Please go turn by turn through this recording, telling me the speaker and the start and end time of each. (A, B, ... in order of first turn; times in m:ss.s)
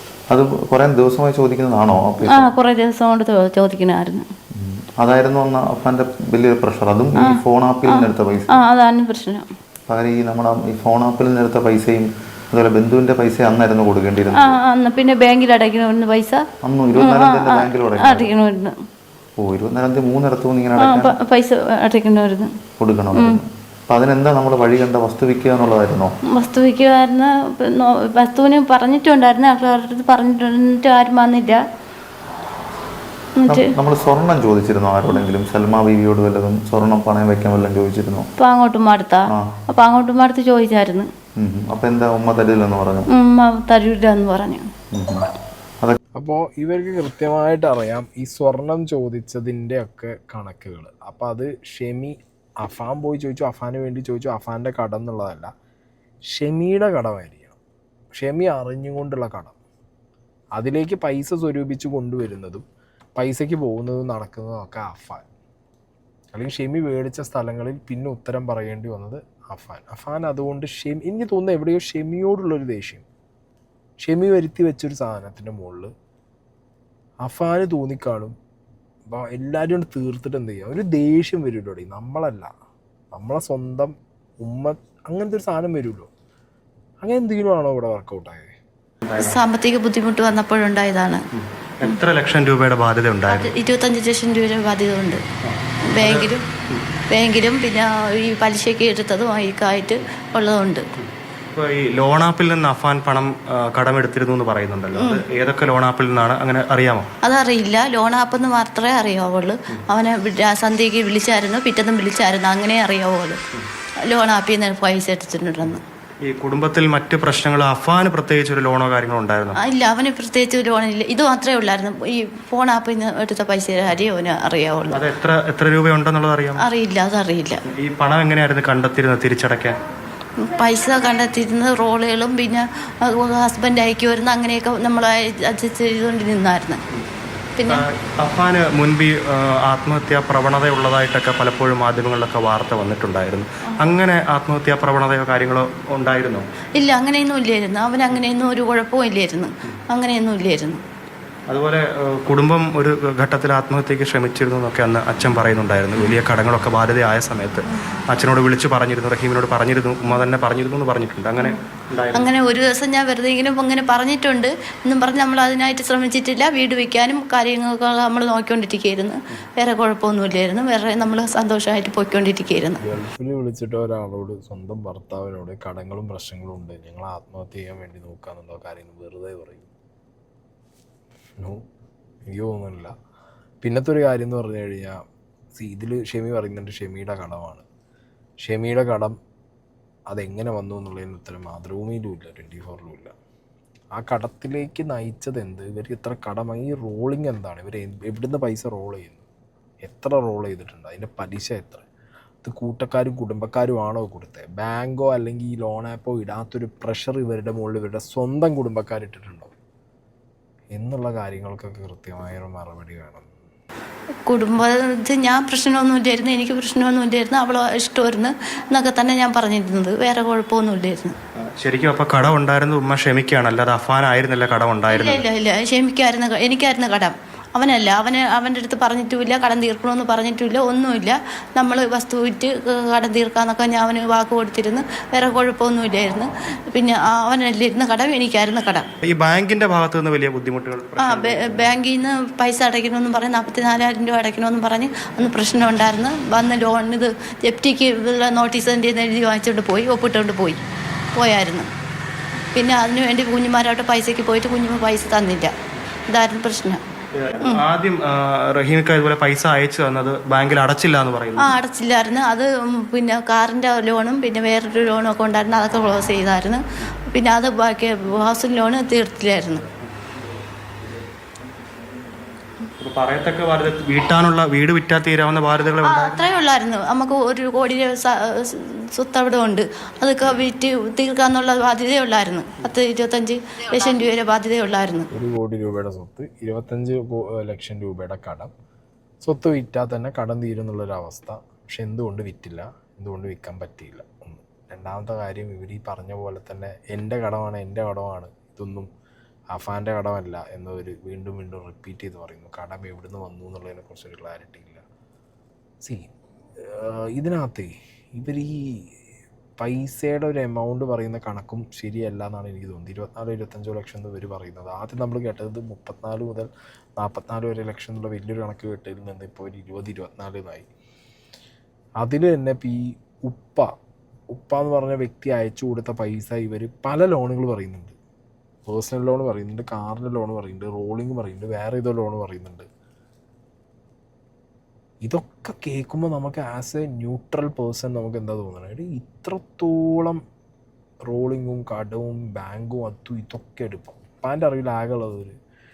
0:00.3-0:02.5 A
0:02.3-0:04.2 B
0:04.5-0:08.6 A
0:07.2-0:09.5 B
0:09.9-0:14.6 A
0:14.3-0:18.7 B
0:16.6-0:18.3 A
0:19.4-0:21.2 A
0:20.8-0:22.5 B
0:22.8-0:26.1 A
0:23.2-0:23.4 B
0:26.3-0:31.6 B
0:33.4-0:33.7 B
0:33.5-0:38.3 A
0:38.4-0:41.1 B
0:41.4-0:43.1 A
0:43.1-0:44.7 B
0:44.9-0:45.2 A
0:46.1-0:55.5 C
0:56.3-0:57.6 C
0:58.1-0:59.6 C
1:00.6-1:02.6 C
1:03.2-1:05.2 C
1:06.3-1:13.0 C
1:14.0-1:15.9 C
1:17.2-1:18.3 C
1:19.1-1:22.5 C
1:23.1-1:26.1 C
1:27.0-1:28.5 C
1:29.0-1:29.4 D
1:29.2-1:31.2 B
1:31.3-1:33.5 D
1:33.3-1:35.2 B
1:35.4-1:36.8 D
1:35.9-1:36.4 B
1:37.1-1:40.8 B
1:41.0-1:47.1 D
1:45.0-1:45.2 B
1:47.2-1:53.4 B
1:54.0-1:55.8 B
1:56.2-1:59.6 D
1:59.6-2:05.1 B
2:04.9-2:06.6 D
2:06.6-2:07.6 B
2:07.7-2:09.8 D
2:10.4-2:16.8 B
2:17.6-2:17.8 B
2:17.7-2:26.5 D
2:26.7-2:30.8 B
2:31.5-2:42.3 D
2:42.1-2:52.8 B
2:52.8-2:59.7 C
3:02.2-3:02.9 C
3:03.6-3:05.0 C
3:05.6-3:07.6 C
3:08.4-3:09.2 C
3:10.1-3:13.1 C
3:14.0-3:19.2 C
3:19.8-3:21.8 C
3:22.4-3:29.5 C
3:30.7-3:33.3 C
3:34.3-3:41.2 B
3:41.4-3:45.2 D
3:44.9-3:58.9 B
3:59.0-4:01.7 D
4:01.0-4:10.6 B
4:11.1-4:11.7 B
4:12.5-4:15.5 B
4:16.1-4:16.8 B
4:17.1-4:21.5 D
4:21.4-4:29.6 B
4:32.8-4:36.2 D
4:35.8-4:45.1 B
4:45.1-4:48.5 C
4:49.2-4:58.9 C
4:59.5-5:04.8 C
5:05.8-5:09.0 C
5:09.6-5:20.7 C
5:22.0-5:23.7 C
5:24.3-5:28.0 C
5:28.7-5:32.7 C
5:35.0-5:40.2 C
5:41.1-5:45.4 C